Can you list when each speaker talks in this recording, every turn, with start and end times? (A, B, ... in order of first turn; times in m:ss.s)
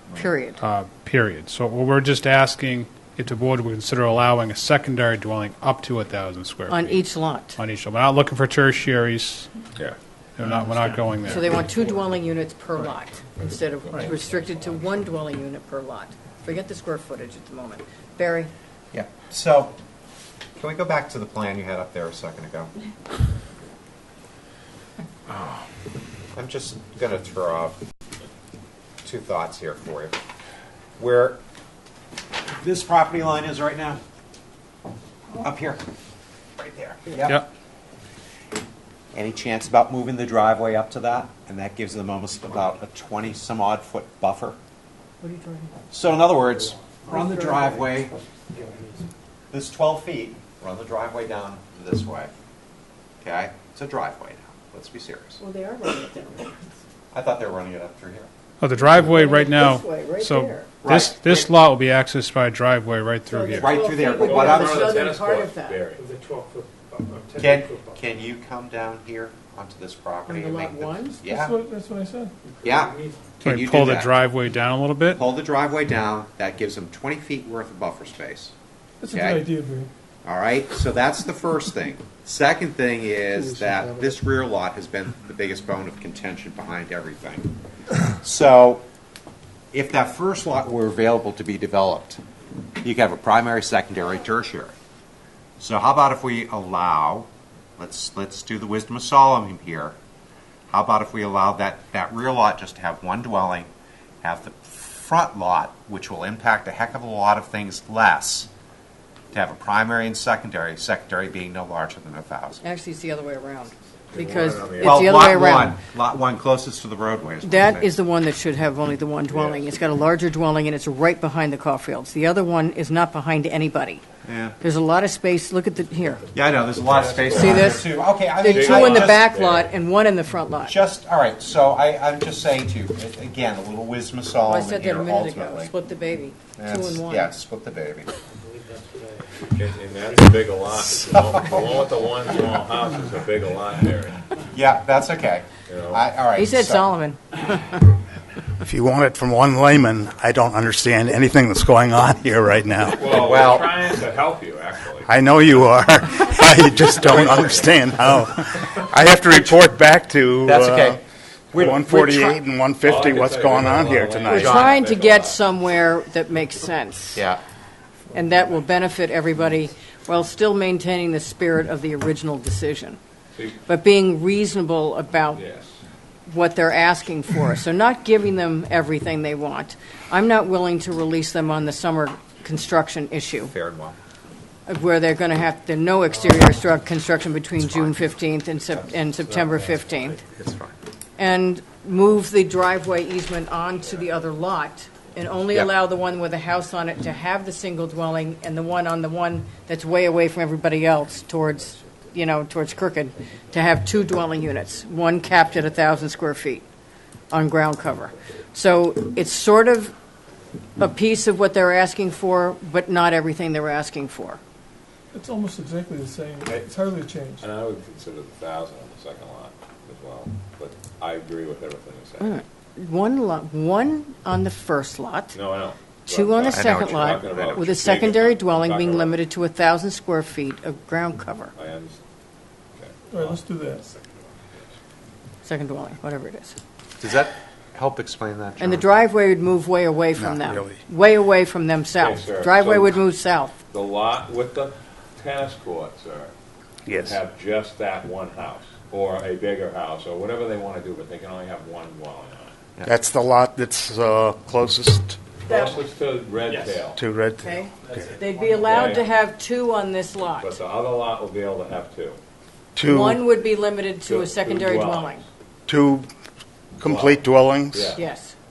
0:00.2-0:00.6 A
0:00.6-0:07.0 B
0:06.7-0:07.6 A
0:07.6-0:09.5 B
0:10.4-0:11.5 B
0:11.2-0:18.5 A
0:18.9-0:19.8 C
0:20.6-0:22.7 C
0:26.3-0:27.8 C
0:29.0-0:30.2 C
0:31.0-0:31.4 C
0:32.5-0:34.0 C
0:35.4-0:35.8 C
0:36.6-0:37.4 C
0:39.1-0:44.6 C
0:45.2-0:45.7 A
0:45.9-0:48.1 C
0:47.1-0:47.7 A
0:48.5-0:49.1 D
0:49.5-0:52.3 C
0:53.2-0:55.4 C
0:55.4-0:56.5 A
0:57.1-0:58.3 C
0:58.6-1:03.7 B
0:58.9-1:00.7 A
1:00.8-1:01.5 C
1:03.3-1:05.9 A
1:03.5-1:04.8 C
1:04.1-1:06.0 E
1:05.9-1:08.0 D
1:07.4-1:11.5 C
1:10.3-1:11.2 A
1:11.3-1:12.3 F
1:12.4-1:13.4 D
1:12.6-1:14.1 C
1:13.4-1:15.2 B
1:15.1-1:18.5 C
1:19.0-1:19.9 F
1:19.1-1:19.5 C
1:20.2-1:27.5 C
1:23.4-1:24.1 F
1:28.2-1:28.8 C
1:29.7-1:32.2 C
1:32.8-1:34.7 C
1:35.6-1:40.0 C
1:40.7-1:43.7 C
1:44.2-1:48.5 C
1:49.3-1:52.6 C
1:52.6-1:55.8 A
1:54.1-1:55.2 E
1:54.8-1:57.9 C
1:57.4-2:04.0 A
1:59.3-1:59.7 E
2:04.2-2:04.6 C
2:04.6-2:06.2 A
2:06.3-2:09.3 C
2:06.8-2:07.8 E
2:07.3-2:10.8 A
2:08.4-2:09.7 E
2:10.6-2:15.7 C
2:14.4-2:17.3 A
2:16.6-2:18.1 C
2:18.4-2:20.3 D
2:19.6-2:24.2 E
2:21.0-2:21.8 C
2:24.5-2:26.9 C
2:25.7-2:26.0 E
2:26.4-2:27.9 A
2:28.6-2:33.0 G
2:32.9-2:35.1 E
2:33.0-2:33.7 C
2:35.0-2:41.0 G
2:36.4-2:38.8 E
2:40.4-2:41.0 C
2:41.5-2:42.4 C
2:41.5-2:44.5 G
2:42.8-2:45.4 E
2:44.3-2:47.2 A
2:44.4-2:44.7 C
2:48.1-2:53.0 A
2:53.6-2:55.4 A
2:55.3-2:55.8 E
2:56.2-3:03.5 A
3:03.5-3:04.0 C
3:04.6-3:10.2 A
3:07.6-3:07.9 C
3:09.3-3:09.6 E
3:10.4-3:10.7 C
3:11.2-3:26.6 A
3:27.3-3:29.9 A
3:30.8-3:34.4 A
3:35.1-3:37.4 F
3:37.4-3:42.4 E
3:42.2-3:45.4 A
3:45.3-3:49.2 E
3:46.1-3:51.5 A
3:46.4-3:47.6 C
3:51.5-3:52.0 E
3:52.8-3:53.4 E
3:53.1-3:53.9 F
3:55.4-3:56.6 A
3:57.0-3:58.9 C
3:58.6-4:03.5 A
4:00.2-4:00.8 G
4:02.0-4:03.0 E
4:03.7-4:06.3 E
4:06.8-4:07.2 G
4:06.9-4:12.5 E
4:12.8-4:15.2 G
4:15.4-4:17.0 E
4:15.5-4:15.8 A
4:16.9-4:17.4 G
4:17.4-4:20.6 A
4:17.7-4:18.7 D
4:18.6-4:19.0 E
4:20.4-4:22.2 E
4:22.8-4:23.2 G
4:22.8-4:25.2 A
4:24.0-4:25.2 E
4:25.7-4:26.1 G
4:26.8-4:28.0 G
4:26.8-4:28.0 E
4:27.9-4:28.3 A